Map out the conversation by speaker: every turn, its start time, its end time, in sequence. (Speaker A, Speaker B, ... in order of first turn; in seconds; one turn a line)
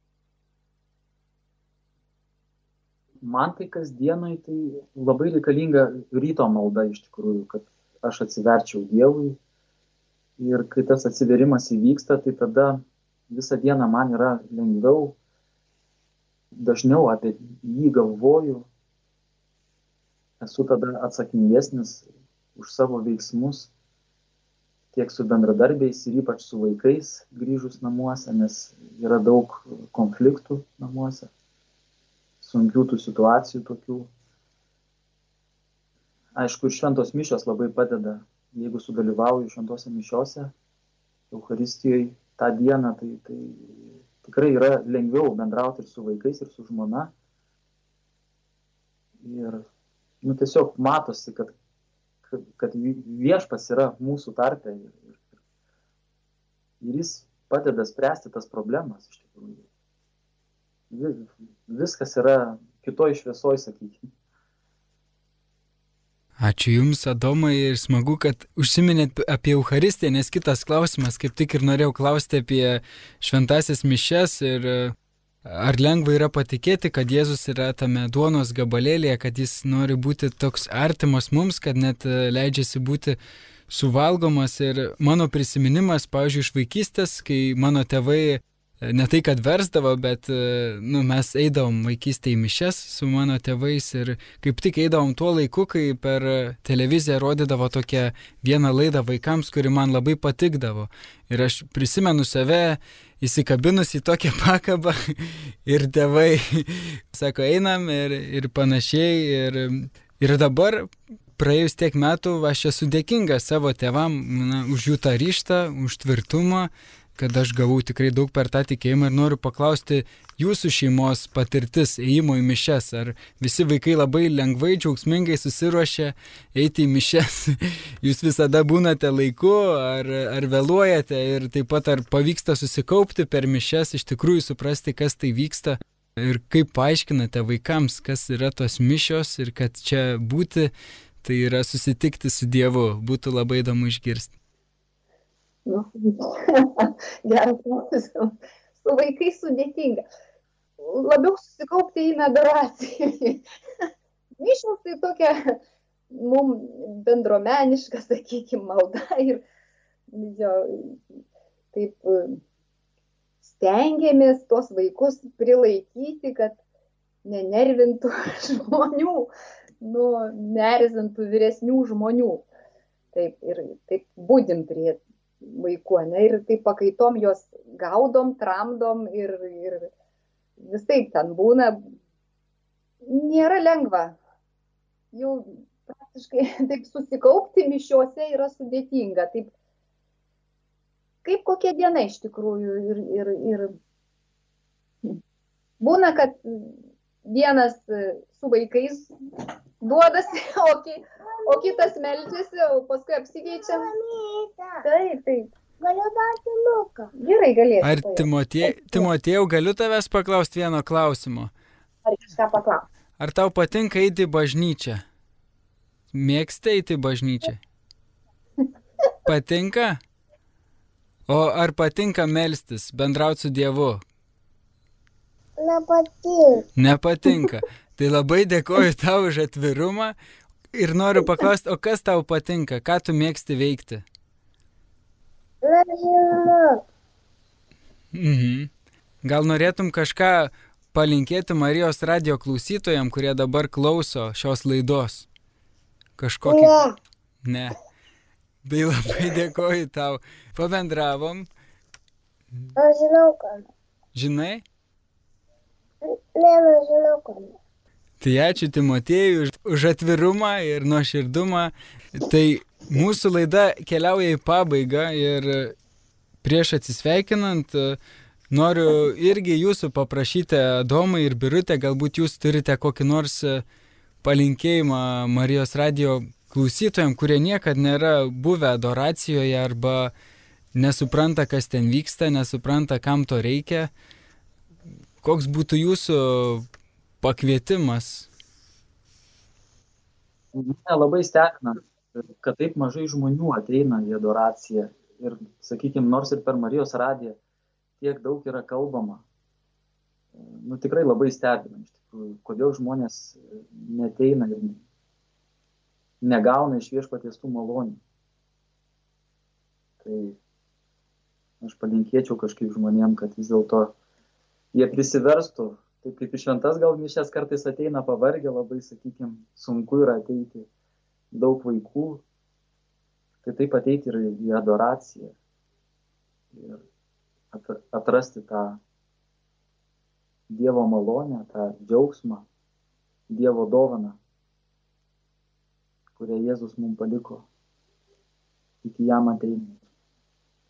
Speaker A: 3.2-9.4
Speaker A: 10.4-15.2
Speaker A: 16.5-18.7
Speaker A: 20.4-23.7
Speaker A: 24.9-31.3
Speaker A: 32.4-34.1
Speaker A: 36.4-40.5
Speaker A: 41.3-47.1
Speaker A: 49.2-49.6
Speaker A: 50.2-51.5
Speaker A: 52.2-55.2
Speaker A: 56.8-59.6
Speaker A: 60.9-64.1
Speaker B: 66.4-74.9
Speaker B: 75.5-83.2
Speaker B: 83.7-140.7
Speaker B: 141.2-144.3
Speaker C: 145.7-150.0
Speaker C: 150.8-153.4
Speaker C: 154.4-155.6
Speaker C: 156.1-159.4
Speaker C: 160.1-161.2
Speaker C: 161.7-162.4
Speaker C: 163.4-166.6
Speaker C: 167.2-169.3
Speaker C: 169.8-172.4
Speaker C: 173.1-179.9
Speaker C: 180.6-181.8
Speaker C: 183.0-184.2
Speaker C: 185.1-189.5
Speaker C: 191.2-193.8
Speaker C: 195.8-199.1
Speaker C: 199.8-203.9
Speaker D: 201.4-201.9
Speaker D: 203.5-204.8
Speaker C: 204.8-205.5
Speaker D: 205.8-207.1
Speaker C: 207.2-209.1
Speaker B: 207.8-211.5
Speaker C: 212.1-212.8
Speaker B: 213.2-215.0
Speaker B: 216.1-217.6
Speaker B: 219.2-220.0
Speaker B: 221.3-224.0
Speaker D: 225.6-226.6
Speaker B: 226.8-230.2
Speaker B: 230.7-234.0
Speaker D: 235.6-236.8
Speaker B: 238.1-238.7
Speaker B: 239.2-245.3
Speaker B: 246.2-246.7
Speaker D: 246.4-246.9
Speaker B: 247.4-247.8
Speaker B: 248.6-251.5
Speaker D: 252.8-253.6
Speaker B: 254.1-254.6
Speaker D: 256.0-257.5
Speaker B: 258.2-265.7
Speaker B: 266.4-268.0
Speaker B: 268.5-273.6
Speaker B: 274.2-280.1
Speaker B: 280.7-283.9
Speaker B: 285.2-286.6
Speaker B: 287.2-288.3
Speaker A: 290.5-297.4
Speaker A: 298.0-299.2
Speaker A: 300.3-304.8
Speaker A: 306.2-308.0
Speaker A: 310.0-310.4
Speaker A: 311.6-313.9
Speaker A: 314.7-320.7
Speaker A: 321.3-322.2
Speaker A: 323.4-325.3
Speaker A: 326.5-326.8
Speaker A: 327.5-328.8
Speaker A: 330.5-332.5
Speaker A: 333.3-334.2
Speaker A: 336.1-337.4
Speaker A: 338.8-339.7